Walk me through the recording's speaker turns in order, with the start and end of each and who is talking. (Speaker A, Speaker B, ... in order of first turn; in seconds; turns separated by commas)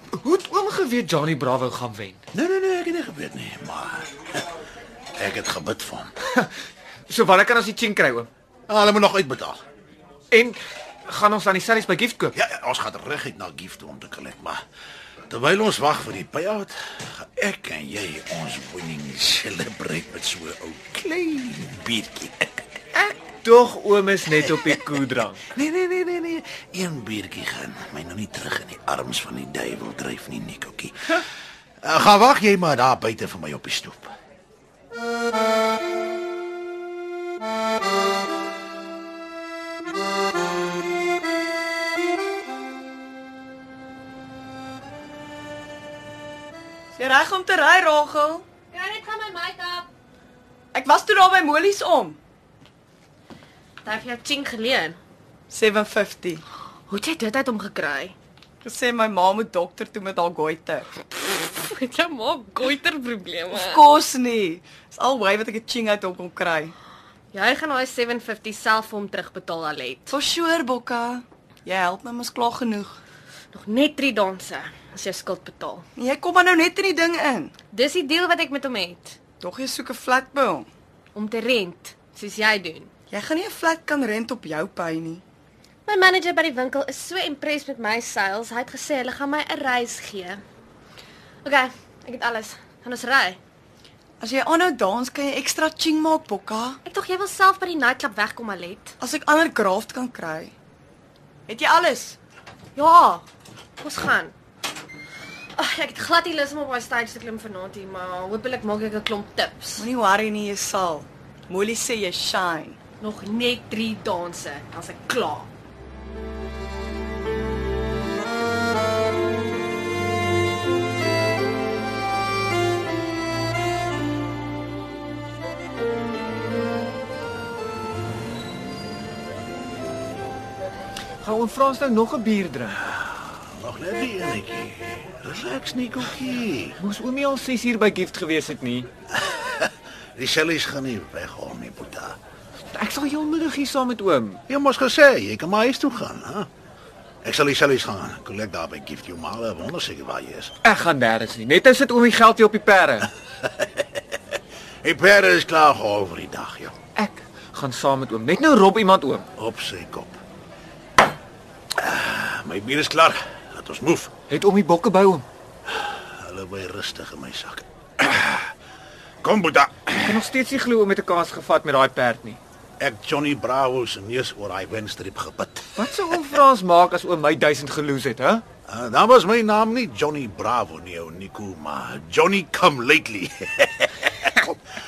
Speaker A: 0.1-2.2, Speaker B: 2.3-4.1, Speaker B: 5.2-6.1, Speaker A: 7.1-8.3, Speaker B: 8.7-9.6, Speaker A: 10.3-12.3, Speaker B: 12.3-14.6, Speaker B: 15.3-22.6, Speaker A: 22.9-25.4, Speaker B: 24.3-24.8, Speaker B: 25.5-31.2, Speaker B: 31.8-34.1, Speaker C: 46.9-48.4, Speaker D: 48.7-49.9, Speaker C: 50.7-52.2, Speaker D: 53.8-55.0, Speaker C: 55.5-56.4, Speaker D: 56.9-58.1, Speaker C: 58.6-60.9, Speaker D: 61.0-63.8, Speaker C: 63.5-66.7, Speaker D: 67.3-70.1, Speaker C: 70.1-73.0, Speaker D: 73.5-75.8, Speaker C: 76.0-77.5, Speaker D: 77.7-79.2, Speaker C: 79.4-80.7, Speaker D: 81.1-82.9, Speaker C: 83.1-85.2, Speaker D: 85.8-90.4, Speaker D: 91.4-93.4, Speaker C: 94.2-96.8, Speaker D: 96.8-98.9, Speaker C: 99.0-100.5, Speaker C: 101.5-102.2, Speaker D: 102.8-103.2, Speaker D: 103.8-104.3, Speaker D: 105.6-109.9, Speaker C: 109.8-112.8, Speaker D: 113.0-115.5, Speaker A: 131.2-132.8, Speaker B: 132.9-136.8, Speaker A: 136.8-138.9, Speaker B: 139.2-142.2, Speaker A: 142.7-144.4, Speaker B: 144.5-146.5, Speaker B: 147.2-150.5, Speaker A: 150.6-153.1, Speaker B: 154.8-156.7, Speaker A: 156.9-159.3, Speaker B: 159.3-160.2, Speaker B: 161.8-164.1, Speaker A: 164.3-165.2, Speaker B: 165.7-168.5, Speaker B: 169.2-170.2, Speaker A: 170.0-172.4, Speaker B: 172.8-175.7, Speaker A: 175.8-178.4, Speaker B: 178.7-184.6